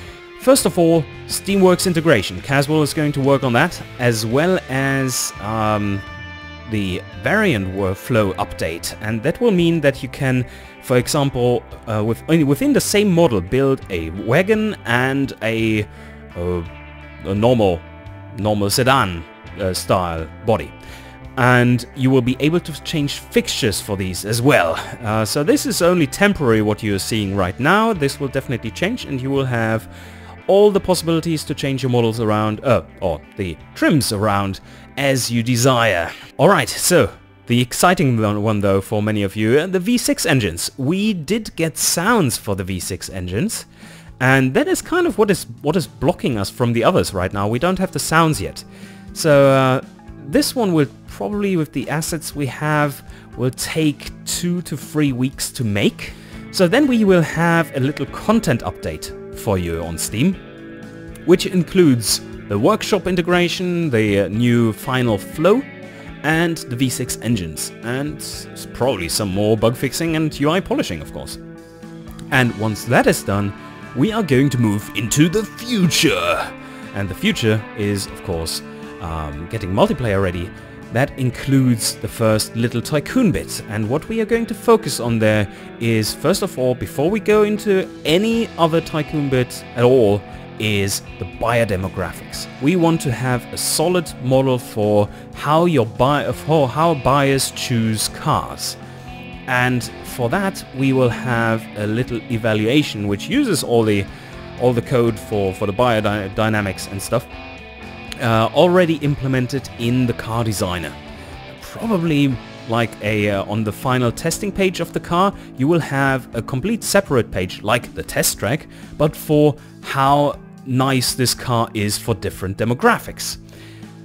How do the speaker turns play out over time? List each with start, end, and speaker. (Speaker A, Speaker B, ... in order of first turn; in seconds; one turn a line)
Speaker A: 0.4-6.0
Speaker A: 6.7-16.7
Speaker A: 17.2-20.7
Speaker A: 21.4-29.9
Speaker A: 30.5-43.7
Speaker A: 44.2-60.4
Speaker A: 61.2-65.7
Speaker A: 66.2-71.4
Speaker A: 72.3-98.8
Speaker A: 99.5-107.3
Speaker A: 108.2-111.0
Speaker A: 111.6-123.4